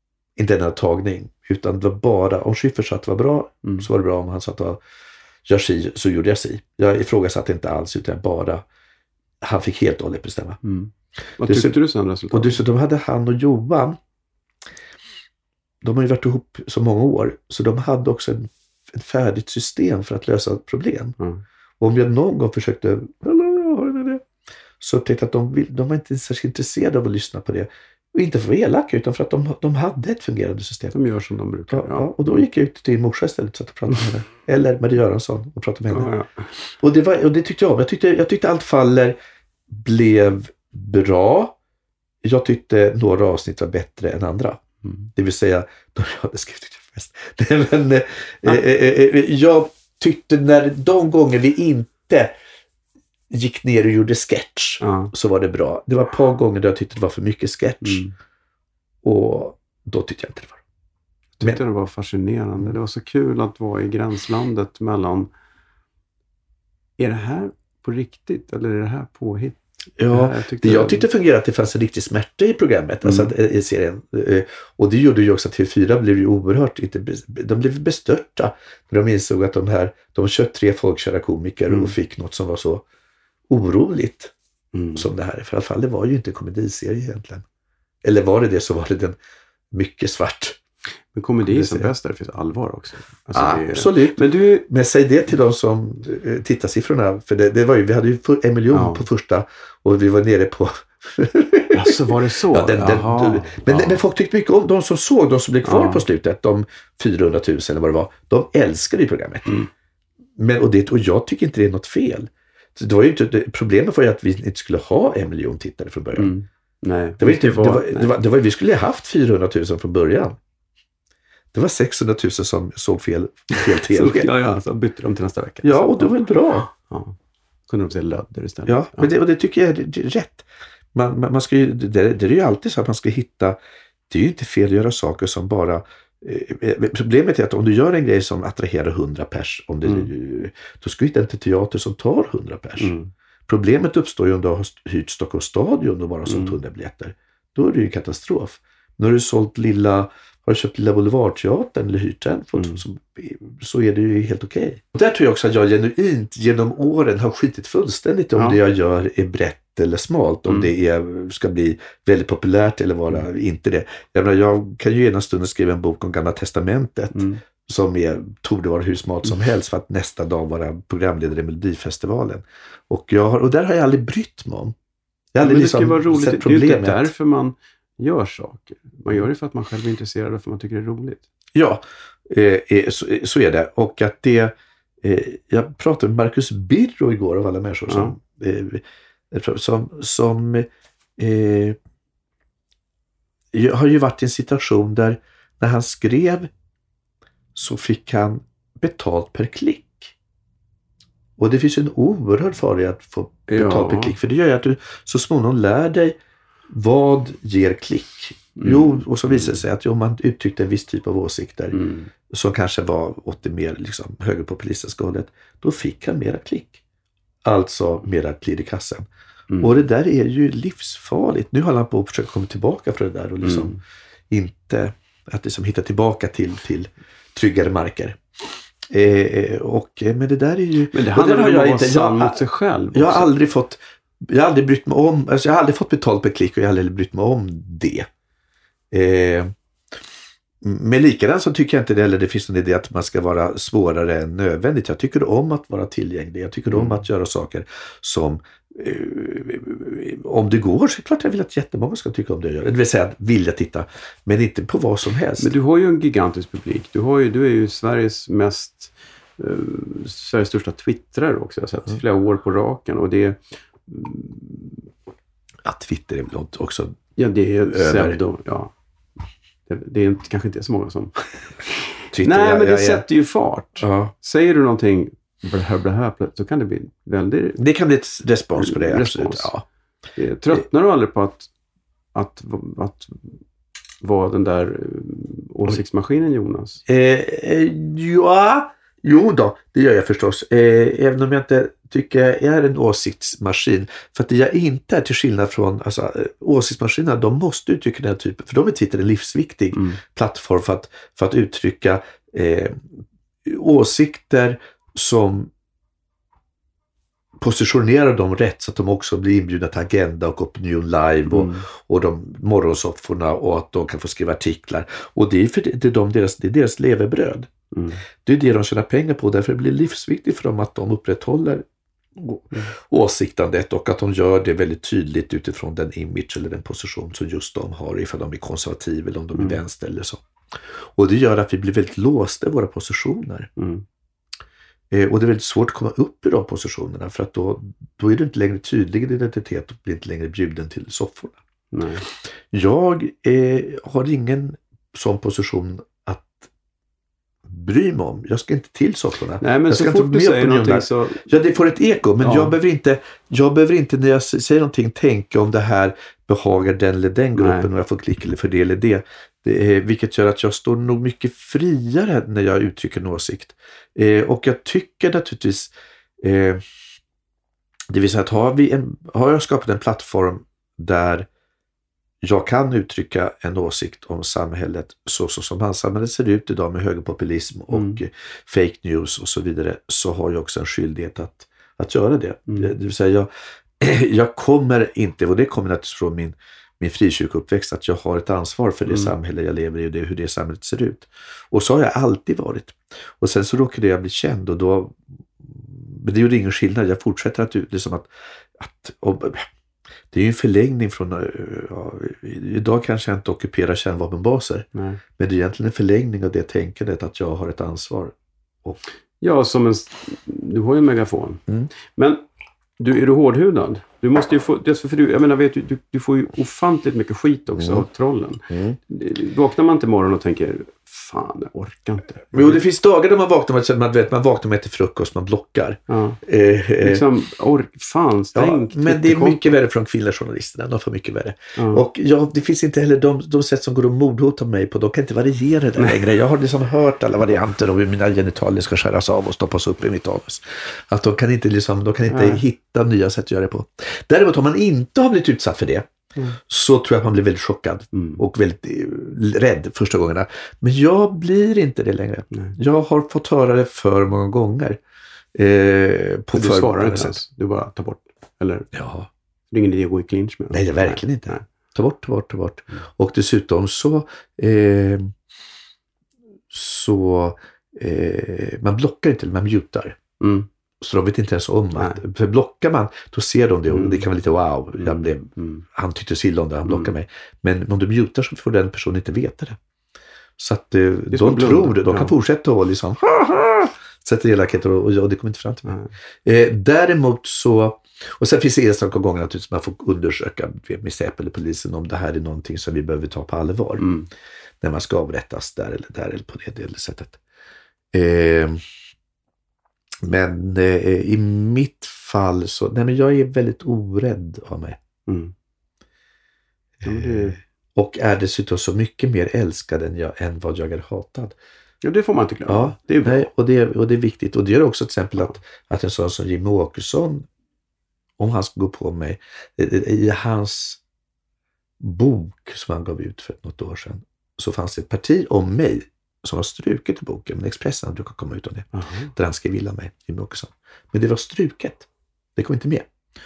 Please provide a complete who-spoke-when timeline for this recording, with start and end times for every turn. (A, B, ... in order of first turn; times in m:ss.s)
0:00.4-0:04.8 A
0:05.4-0:08.6 A
0:09.4-0:10.6 A
0:10.6-0:12.6 B
0:11.4-0:11.8 A
0:12.3-0:14.0 A
0:15.8-0:21.2 A
0:21.8-0:24.2 A
0:24.8-0:31.0 A
0:30.9-0:32.2 B
0:31.7-0:36.1 A
0:35.9-0:36.5 B
0:36.8-0:39.2 A
0:39.7-0:41.6 A
0:42.2-0:44.6 A
0:44.8-0:45.1 B
0:45.1-0:52.4 A
0:53.3-0:58.0 A
0:54.8-0:55.1 B
0:57.8-0:58.1 B
0:59.0-1:00.6 A
1:01.4-1:05.3 B
1:07.0-1:11.0 B
1:10.0-1:22.8 A
1:13.0-1:13.3 B
1:21.7-1:22.0 B
1:23.5-1:24.3 A
1:24.7-1:25.1 B
1:25.0-1:27.5 A
1:28.0-1:29.2 A
1:29.7-1:30.6 A
1:31.1-1:34.7 B
1:31.5-1:31.9 A
1:33.3-1:49.6 A
1:38.7-1:39.0 B
1:41.7-1:44.0 B
1:45.6-1:46.0 B
1:50.4-1:56.3 A
1:56.1-1:58.2 B
1:57.2-2:00.4 A
2:01.5-2:04.3 A
2:03.7-2:06.2 B
2:05.6-2:06.7 A
2:06.7-2:07.2 B
2:07.7-2:09.1 B
2:08.7-2:13.6 A
2:14.1-2:23.0 A
2:19.8-2:20.1 B
2:22.8-2:23.1 B
2:23.5-2:54.8 A
2:26.3-2:26.6 B
2:32.6-2:32.8 B
2:47.1-2:47.4 B
2:55.3-2:57.1 A
2:55.4-3:01.2 B
3:01.6-3:11.8 A
3:07.9-3:08.2 B
3:13.5-3:16.5 A
3:17.6-3:20.1 A
3:21.4-3:26.2 A
3:23.5-3:24.2 B
3:26.7-3:36.8 A
3:28.6-3:29.6 B
3:31.7-3:32.1 B
3:37.4-3:39.1 A
3:39.6-3:43.8 A
3:43.4-3:43.8 B
3:44.3-3:48.2 A
3:48.9-3:52.4 A
3:50.9-3:53.3 B
3:52.9-3:58.1 A
3:58.9-3:59.5 A
4:00.6-4:15.6 A
4:06.7-4:07.0 B
4:15.4-4:24.8 B
4:25.6-4:27.0 A
4:27.2-4:28.7 B
4:27.7-4:28.2 A
4:29.7-4:37.6 B
4:32.1-4:33.0 A
4:33.8-4:34.1 A
4:37.6-4:39.6 A
4:38.6-4:39.5 B
4:40.2-4:41.5 B
4:42.1-4:43.4 B
4:44.0-4:46.8 B
4:46.9-5:02.9 A
4:59.7-5:00.0 B
5:03.4-5:05.5 A
5:07.4-5:17.5 A
5:11.3-5:11.7 B
5:17.7-5:18.0 B
5:18.2-5:33.5 A
5:29.4-5:29.6 B
5:33.6-5:33.8 B
5:34.9-5:41.4 A
5:41.7-5:42.0 B
5:42.5-5:46.5 A
5:47.5-6:06.6 A
5:49.4-5:51.3 B
5:52.2-5:52.6 B
5:57.4-5:57.7 B
6:07.9-6:11.3 A
6:12.2-6:39.5 A
6:17.7-6:18.0 B
6:40.1-6:48.8 A
6:44.7-6:45.0 B
6:49.2-6:52.2 B
6:52.8-7:02.6 B
6:57.5-6:57.9 A
6:58.5-6:58.8 A
7:02.3-7:07.1 A
7:05.9-7:06.2 B
7:06.8-7:09.6 B
7:08.4-7:25.9 A
7:11.6-7:11.8 B
7:15.8-7:16.0 B
7:22.1-7:22.4 B
7:26.4-7:34.8 A
7:27.9-7:28.2 B
7:35.3-7:37.2 A
7:36.3-7:38.7 B
7:38.7-7:39.1 A
7:39.5-7:41.4 B
7:40.5-7:45.1 A
7:46.5-7:50.0 A
7:50.2-7:50.5 B
7:50.8-7:59.6 A
7:51.8-7:52.0 B
7:53.7-7:54.0 B
7:54.8-7:55.6 B
7:56.6-7:56.9 B
8:00.4-8:13.9 A
8:01.1-8:02.1 B
8:13.8-8:14.1 B
8:14.6-8:17.2 A
8:17.9-8:18.6 A
8:20.0-8:24.8 A
8:25.1-8:25.3 B
8:26.8-8:31.4 A
8:26.8-8:27.4 B
8:31.8-8:33.3 B
8:32.5-8:37.3 A
8:38.2-8:40.8 A
8:41.8-8:52.9 A
8:48.7-8:49.1 B